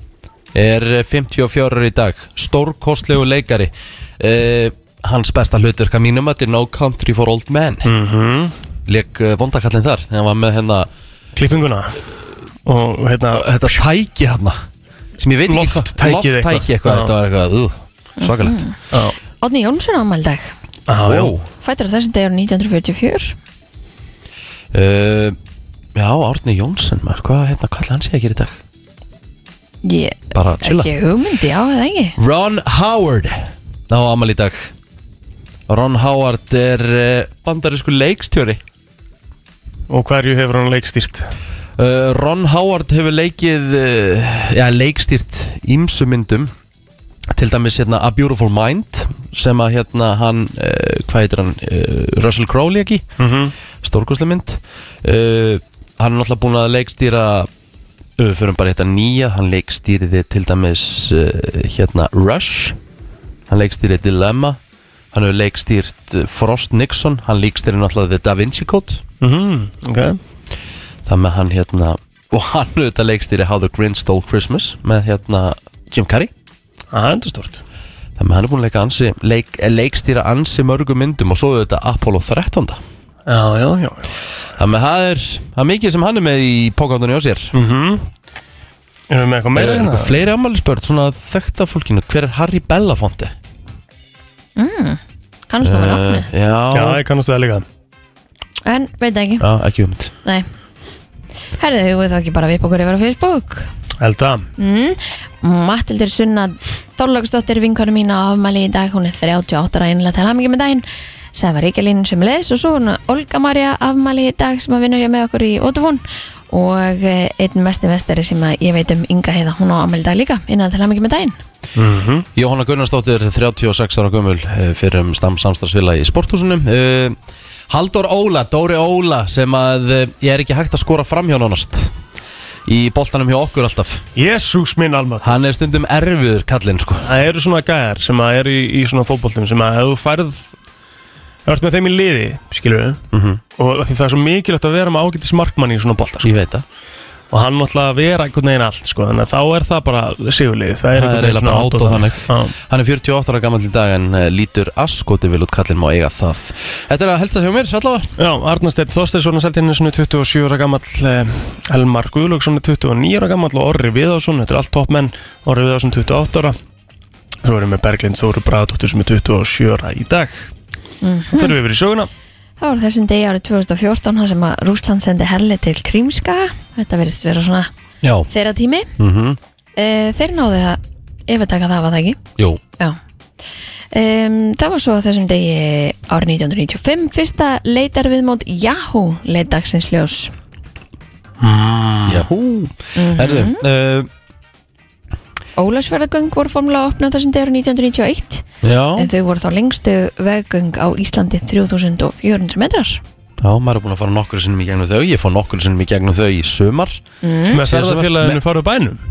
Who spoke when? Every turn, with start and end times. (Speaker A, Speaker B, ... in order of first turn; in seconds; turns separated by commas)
Speaker A: 0.5-7.9, Speaker B: 7.9-8.5, Speaker A: 8.9-10.9, Speaker B: 11.4-12.0, Speaker B: 12.7-13.8, Speaker A: 13.3-14.6, Speaker A: 15.2-18.6, Speaker B: 15.5-17.1, Speaker C: 18.2-18.7, Speaker B: 18.9-19.2, Speaker C: 19.4-20.5, Speaker B: 20.9-21.3, Speaker A: 21.0-21.5, Speaker C: 21.6-23.4, Speaker A: 24.7-25.4, Speaker A: 25.9-28.6, Speaker C: 29.8-32.2, Speaker A: 30.3-30.9, Speaker A: 32.2-34.7, Speaker A: 35.7-38.6, Speaker B: 39.9-41.3, Speaker A: 41.8-46.5, Speaker A: 47.3-53.1, Speaker B: 53.2-53.5, Speaker A: 53.8-57.5, Speaker A: 58.2-62.8, Speaker A: 63.5-64.6, Speaker A: 65.1-69.0, Speaker B: 69.2-70.2, Speaker A: 71.1-76.3, Speaker B: 76.9-77.6, Speaker A: 78.2-82.8, Speaker B: 83.3-84.1, Speaker A: 84.6-87.5, Speaker B: 87.5-88.1, Speaker B: 89.1-90.2, Speaker A: 89.5-93.3, Speaker C: 94.6-96.3, Speaker A: 95.6-97.0, Speaker B: 96.7-97.7, Speaker C: 98.7-99.5, Speaker A: 99.4-100.1, Speaker C: 101.6-103.7, Speaker B: 104.0-104.5, Speaker C: 104.6-121.4, Speaker B: 121.8-122.3, Speaker A: 122.4-127.2, Speaker A: 127.7-131.9, Speaker A: 132.7-134.0, Speaker B: 134.2-135.3, Speaker A: 135.2-137.1, Speaker B: 137.0-140.6, Speaker B: 141.5-143.0, Speaker A: 143.1-143.4, Speaker B: 143.6-146.4, Speaker A: 146.2-146.7, Speaker B: 147.3-152.6, Speaker A: 150.9-158.1, Speaker B: 158.2-166.6, Speaker B: 167.4-170.5, Speaker C: 171.0-171.6, Speaker B: 171.3-172.1, Speaker C: 172.6-177.7, Speaker A: 178.0-178.3, Speaker C: 178.3-178.9, Speaker A: 179.0-179.4, Speaker C: 179.8-182.2, Speaker C: 183.9-190.3, Speaker B: 191.6-192.1, Speaker A: 192.0-194.1, Speaker C: 192.9-193.6, Speaker C: 195.6-198.4, Speaker A: 198.6-199.1, Speaker C: 199.0-203.0, Speaker A: 203.4-207.0, Speaker C: 207.2-207.6, Speaker B: 207.5-209.0, Speaker A: 207.6-208.4